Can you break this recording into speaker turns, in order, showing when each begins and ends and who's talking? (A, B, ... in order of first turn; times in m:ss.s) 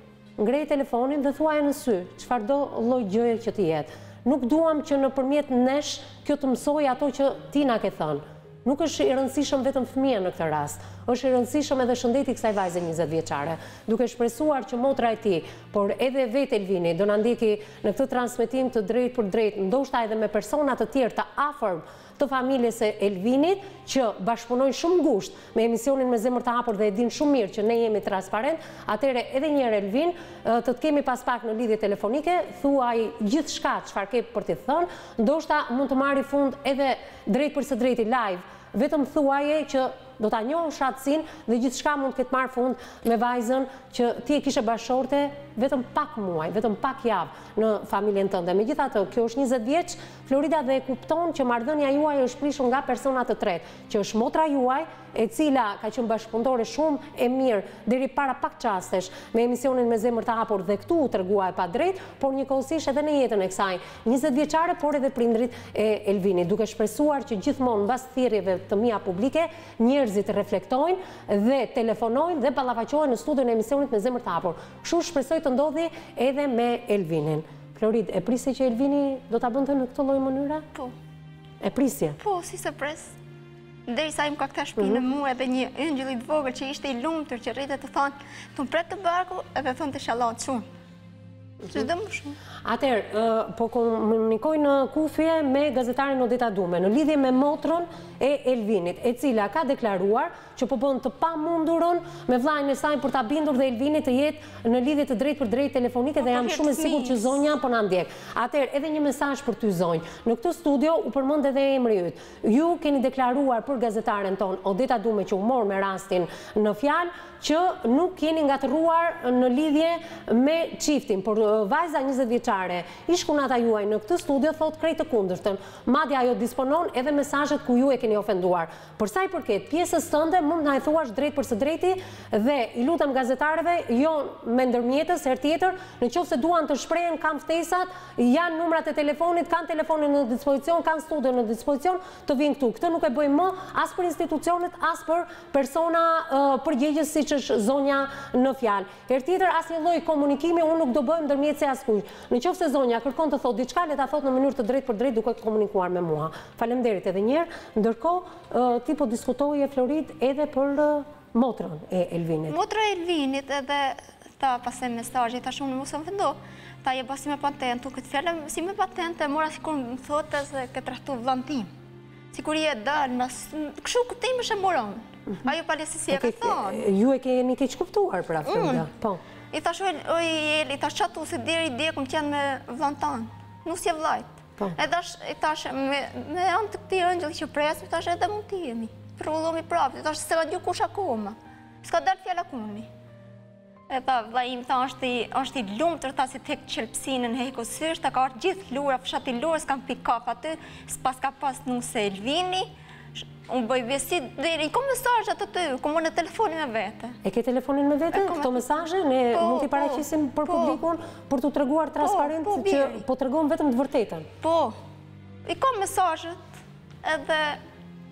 0:00.4-1:20.6 A
1:21.6-1:22.2 A
1:22.2-1:23.1 B
1:23.9-1:30.7 B
1:24.8-1:25.0 A
1:31.6-1:32.4 B
1:32.6-2:42.6 A
1:46.2-1:47.4 B
2:42.5-2:51.7 B
2:52.3-2:56.8 B
2:56.1-2:59.2 A
2:58.4-2:58.9 B
2:59.5-3:12.9 B
3:13.9-3:27.2 B
3:27.2-3:34.3 A
3:28.1-3:30.8 B
3:32.0-3:33.0 B
3:34.4-3:34.8 B
3:35.4-3:36.4 B
3:37.0-3:37.6 B